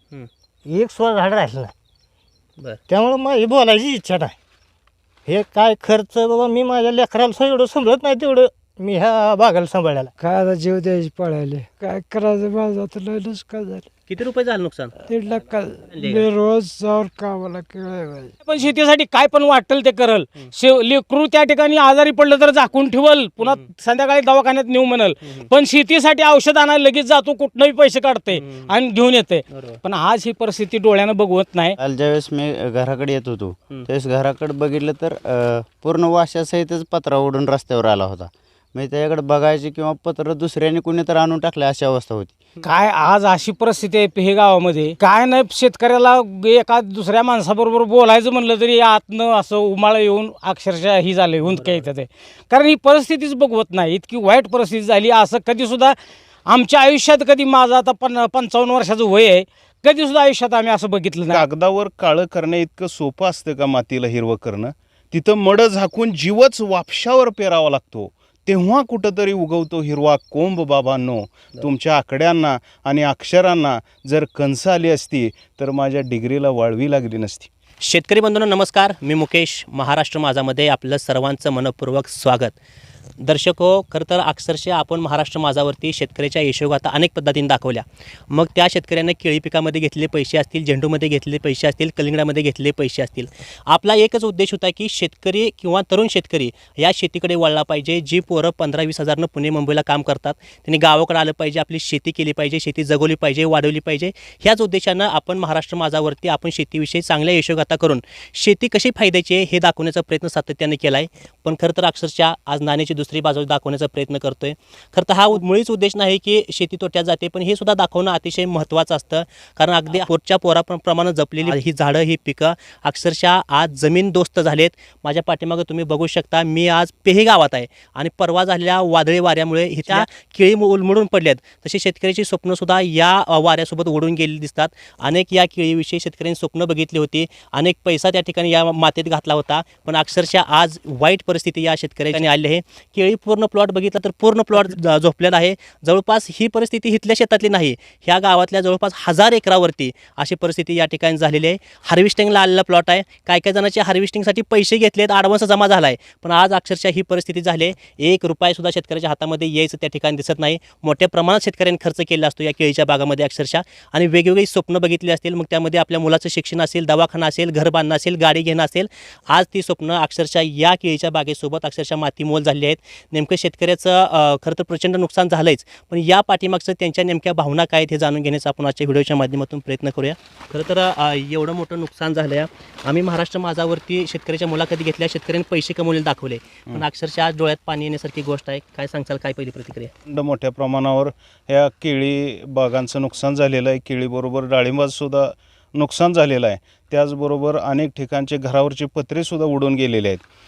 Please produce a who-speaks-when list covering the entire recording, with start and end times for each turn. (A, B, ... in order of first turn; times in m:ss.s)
0:00.7-0:01.7 A
0:02.9-0:04.4 A
0:05.3-0:10.1 A
0:10.2-0:13.9 B
0:14.1-0:14.9 C
0:15.1-0:18.3 B
0:15.9-0:16.3 C
0:18.4-0:31.8 D
0:28.3-0:28.7 C
0:29.5-0:29.8 C
0:31.8-0:42.3 E
0:42.6-0:56.0 D
0:51.4-0:51.8 C
0:56.5-1:01.4 D
1:01.3-1:17.5 F
1:17.8-1:22.6 C
1:23.2-3:09.9 C
3:10.1-3:20.2 F